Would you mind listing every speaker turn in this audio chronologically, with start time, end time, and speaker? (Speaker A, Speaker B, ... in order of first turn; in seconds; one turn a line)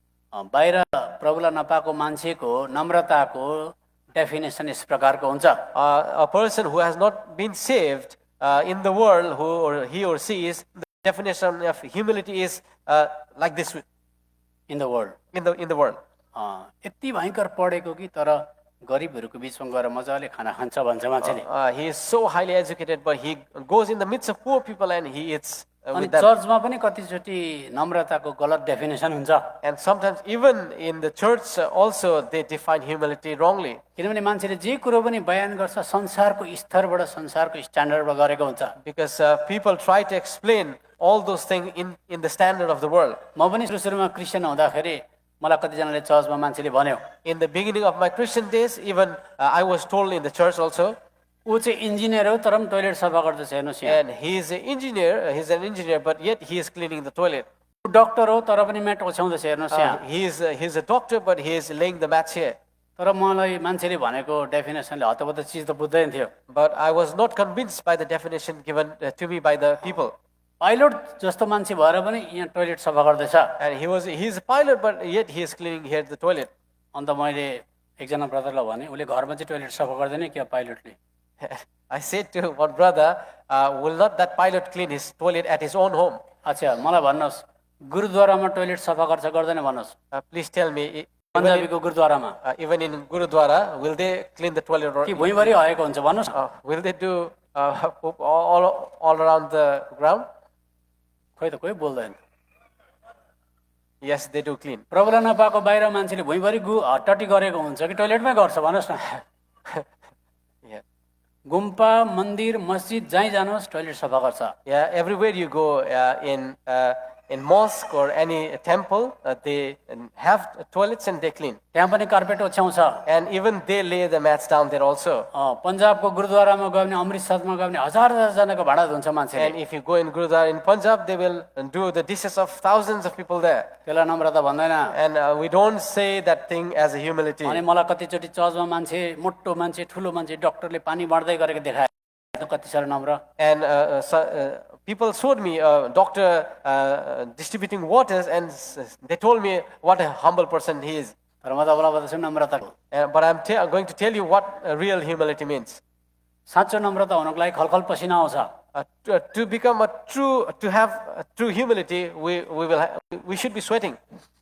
Speaker A: 0.3-5.7
Speaker B: 5.7-13.8
Speaker A: 14.7-15.1
Speaker B: 15.3-16.0
Speaker A: 16.3-21.4
Speaker B: 21.2-26.3
Speaker A: 25.9-29.5
Speaker B: 29.6-33.8
Speaker A: 34.0-38.7
Speaker B: 38.8-43.2
Speaker A: 43.4-47.0
Speaker B: 47.2-51.0
Speaker A: 51.5-54.0
Speaker B: 53.9-57.5
Speaker A: 57.8-60.0
Speaker B: 59.7-62.5
Speaker A: 63.0-66.3
Speaker B: 66.5-70.1
Speaker A: 70.6-73.5
Speaker B: 73.6-76.5
Speaker A: 76.9-81.0
Speaker B: 81.4-86.2
Speaker A: 86.4-89.9
Speaker B: 90.1-91.7
Speaker A: 91.3-92.4
Speaker B: 92.4-95.5
Speaker A: 95.0-96.4
Speaker B: 96.3-100.2
Speaker A: 101.4-102.2
Speaker B: 104.0-104.8
Speaker A: 104.9-109.1
Speaker A: 111.5-114.5
Speaker B: 114.7-121.6
Speaker A: 121.7-123.0
Speaker B: 123.0-125.3
Speaker A: 125.3-129.6
Speaker B: 129.3-133.7
Speaker A: 133.9-134.9
Speaker B: 134.9-137.6
Speaker A: 137.4-143.2
Speaker B: 143.4-151.1
Speaker A: 151.4-152.7
Speaker B: 152.9-155.8
Speaker A: 156.5-158.5
Speaker B: 158.7-164.0